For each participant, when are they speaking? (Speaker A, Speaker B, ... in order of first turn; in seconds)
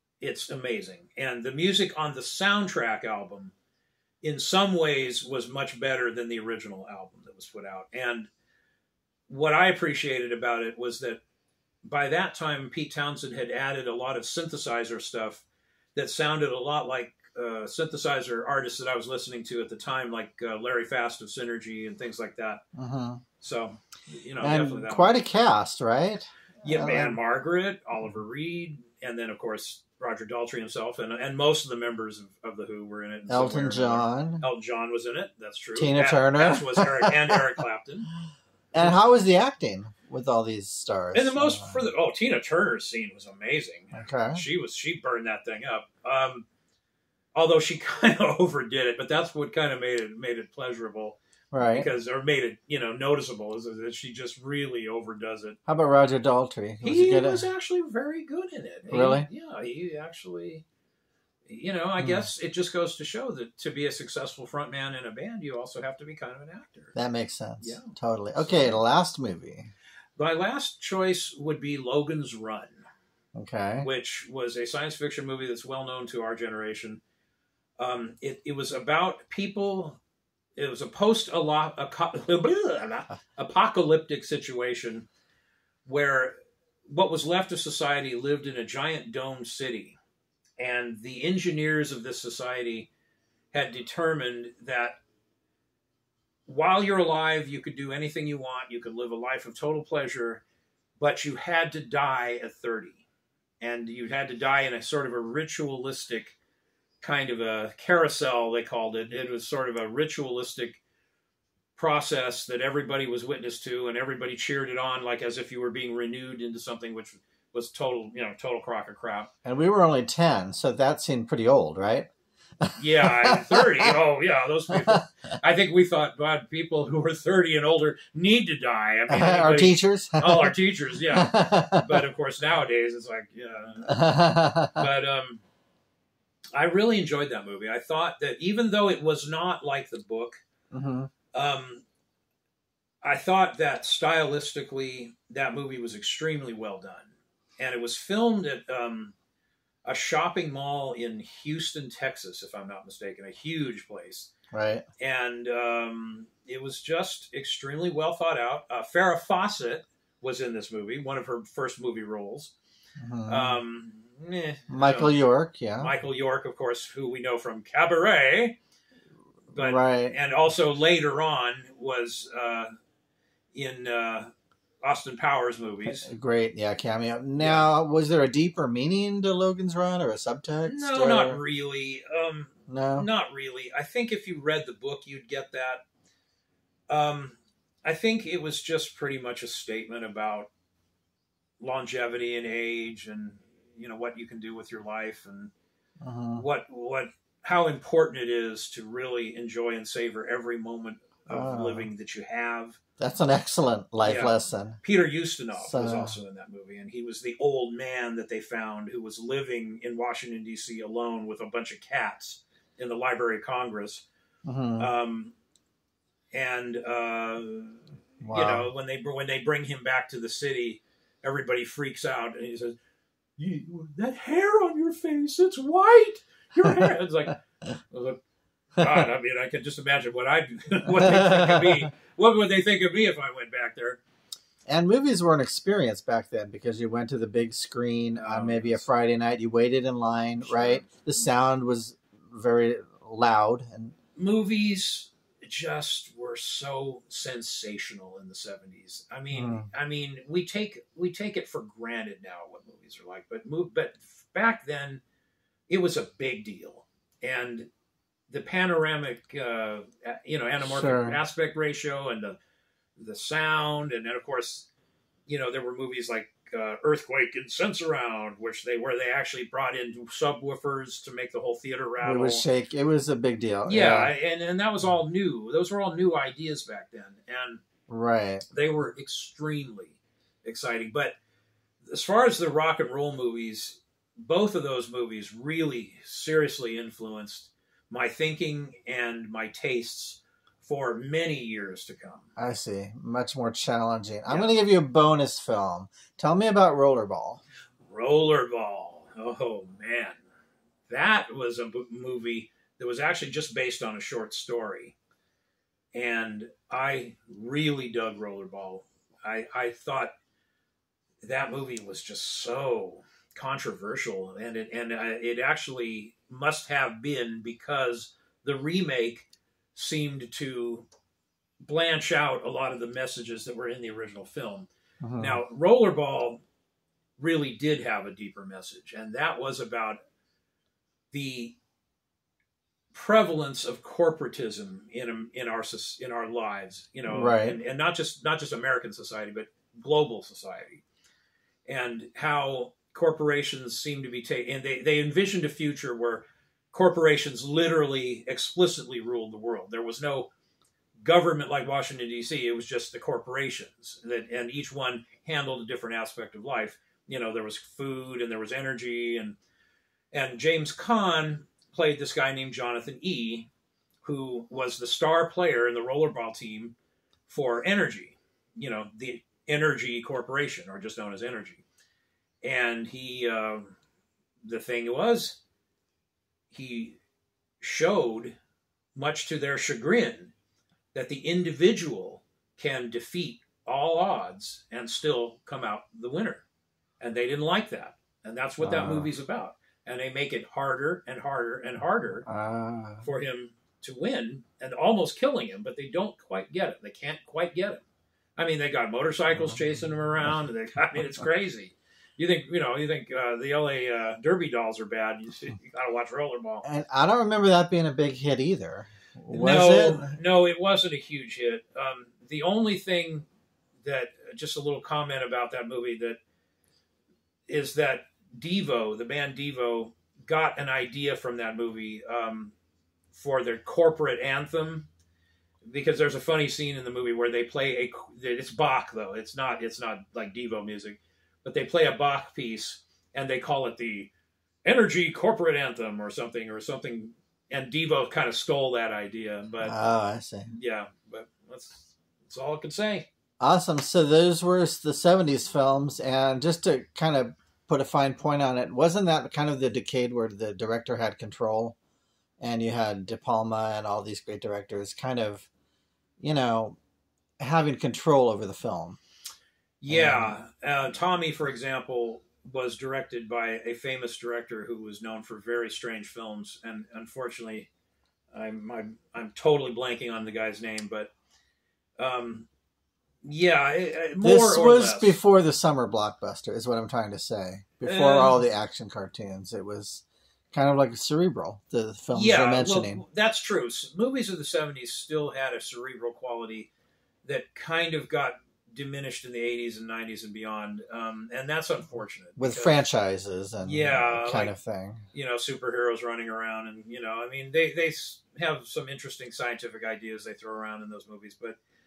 Speaker A: 0.2-3.5, 4.2-8.3, 9.3-11.2, 11.8-22.6, 23.4-25.1, 26.6-38.1, 41.1-46.5, 47.3-51.2, 51.7-55.6, 56.8-60.6, 61.5-66.9, 67.6-68.8, 70.2-72.8, 73.8-77.0, 77.8-80.0, 80.6-85.1, 85.9-86.4, 86.9-90.0, 90.6-92.9, 93.5-95.0, 96.5-100.4, 101.0-103.0, 103.6-106.4, 107.0-110.8, 111.8-119.3, 122.8-134.0, 134.8-135.4, 136.6-140.4, 141.3-141.8, 143.0-149.1, 149.8-154.3, 155.0-162.5, 163.3-165.1, 165.8-168.6, 169.5-172.7, 173.5-174.3, 174.8-176.1, 177.4-177.7, 180.6-185.8, 186.9-190.5, 191.6-195.5, 196.4-202.8, 204.0-214.1, 214.8-215.3, 216.3-222.8, 223.4-228.2, 228.8-234.0, 238.2-238.9, 240.4-241.2, 244.2-255.0, 255.7-257.7, 258.3-262.4, 263.0-264.7, 265.3-272.4, 273.7-277.6, 278.5-281.2, 281.9-292.3, 294.3-294.6, 297.9-300.2, 300.9-305.0, 305.9-310.1, 311.2-320.9, 321.6-326.4, 327.2-330.0, 331.1-331.6, 332.9-340.8, 341.7-350.3, 351.0-359.4, 360.1-363.5, 364.0-366.8, 367.3-371.6, 372.4-373.7, 374.4-375.4, 376.5-377.0, 377.6-378.4, 378.9-380.3, 380.9-386.4, 387.0-392.3, 393.0-397.8, 398.4-406.6, 409.3-413.3, 413.8-416.2, 417.5-422.5, 423.1-424.9, 425.7-434.1, 434.6-439.8, 440.5-443.1, 459.8-467.7, 468.3-471.1, 472.0-472.5, 473.2-475.2, 477.8-478.5, 482.1-486.7, 487.2-492.8, 493.6-494.6, 495.1-501.6
Speaker B: 22.8-23.2, 24.4-27.2, 33.3-34.4, 35.8-37.4, 38.7-41.8, 43.9-44.4, 51.5-51.9, 55.7-57.5, 58.9-59.3, 62.0-62.3, 66.9-69.7, 73.4-73.9, 119.5-122.1, 122.6-123.9, 124.8-125.0, 129.1-130.5, 131.1-132.0, 133.9-134.9, 140.7-141.1, 154.5-154.8, 163.0-163.6, 164.7-165.9, 169.6-170.2, 175.8-181.4, 182.7-183.1, 196.0-196.4, 201.3-201.9, 203.0-204.8, 205.5-206.2, 214.5-214.9, 218.2-218.7, 231.0-231.9, 234.7-243.9, 249.3-249.7, 260.6-261.2, 272.0-274.1, 277.9-278.4, 292.4-297.4, 325.0-325.4, 337.1-337.6, 388.6-389.1, 392.2-393.1, 399.4-400.4, 406.6-410.2, 439.6-440.5, 443.4-451.8, 452.4-455.5, 456.2-456.8, 457.4-459.0, 459.9-460.3, 474.2-483.0, 492.4-495.0